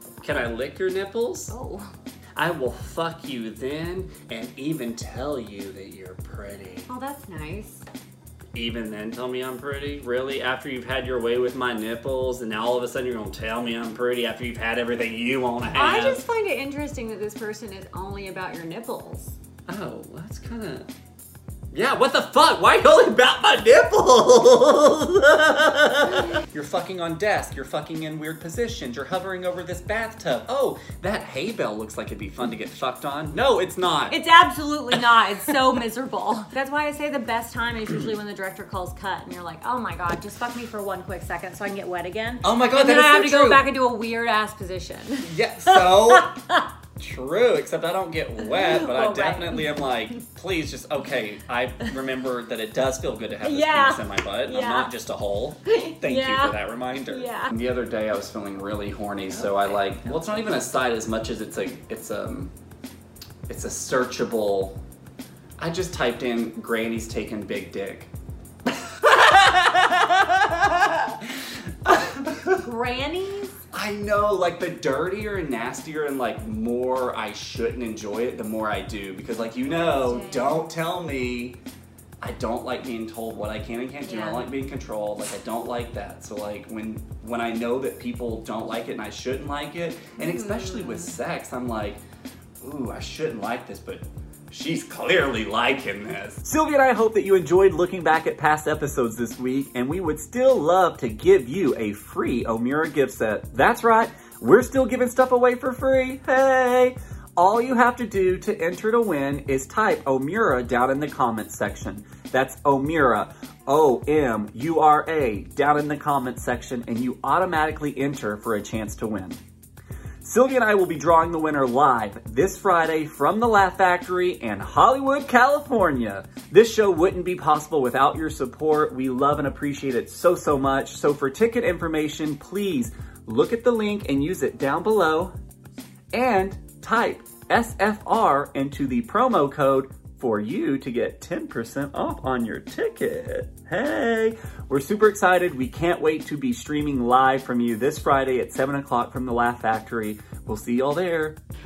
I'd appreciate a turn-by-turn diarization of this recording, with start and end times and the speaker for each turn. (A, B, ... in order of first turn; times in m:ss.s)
0:00.2-0:01.5 A
0:01.5-0:01.9 B
0:02.4-0:06.9 A
0:06.9-0:07.8 B
0:08.5-0:16.2 A
0:15.7-0:19.4 B
0:19.7-0:20.9 A
0:21.7-0:34.2 A
0:34.1-0:46.6 B
0:42.4-0:43.7 A
0:45.2-0:46.3 A
0:47.0-1:02.5 A
0:48.4-0:49.8 B
0:53.4-0:54.9 B
0:55.7-0:57.5 B
1:03.5-1:04.8 A
1:05.6-1:08.1 A
1:08.7-1:11.3 A
1:11.8-1:12.6 A
1:12.6-1:13.6 B
1:13.7-1:21.6 A
1:19.7-1:20.6 B
1:22.2-1:32.0 A
1:24.0-1:24.5 B
1:30.2-1:31.2 B
1:32.6-1:59.4 A
2:00.2-2:15.3 A
2:16.1-2:31.4 A